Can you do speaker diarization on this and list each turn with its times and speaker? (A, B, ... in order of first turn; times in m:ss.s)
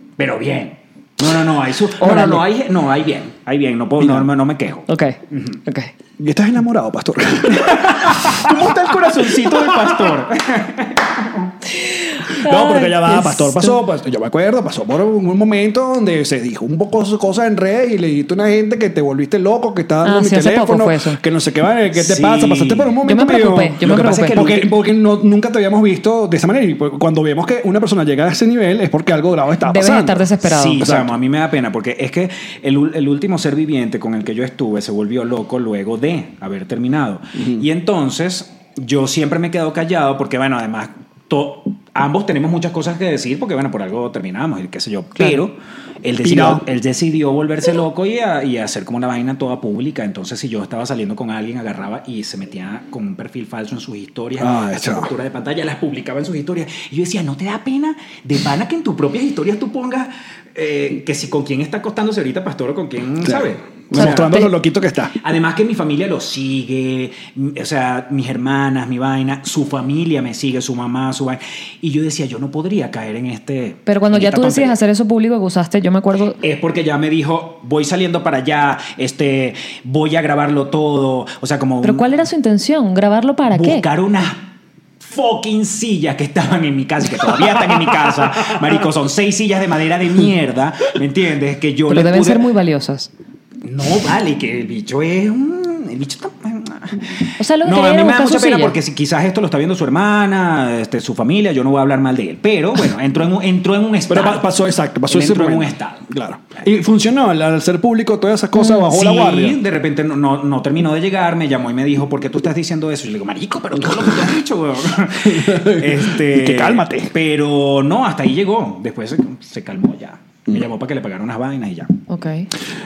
0:00.2-0:05.6 A
0:02.0-0:02.4 B
0:04.0-0:04.3 C
0:04.9-0:05.9 B
0:06.2-0:08.6 C
0:07.5-0:11.5 A
0:09.5-0:10.0 C
0:12.1-0:13.8 B
0:12.4-0:31.1 C
0:20.0-0:21.2 B
0:21.9-0:22.9 A
0:23.0-0:24.4 B
0:23.8-0:24.7 A
0:29.6-0:30.8 B
0:30.4-1:04.4 A
0:37.4-0:37.6 C
0:46.2-0:46.6 C
0:54.4-0:55.1 C
1:03.2-1:05.2 C
1:04.0-1:04.5 B
1:05.2-1:14.8 A
1:13.9-1:16.4 B
1:16.4-1:22.1 A
1:21.8-1:23.8 B
1:23.5-1:32.4 A
1:31.9-1:33.1 B
1:33.6-1:44.4 A
1:37.4-1:38.8 B
1:44.1-1:49.6 C
1:45.1-1:46.1 A
1:48.9-2:01.9 A
1:55.2-1:57.1 C
2:02.1-2:02.5 B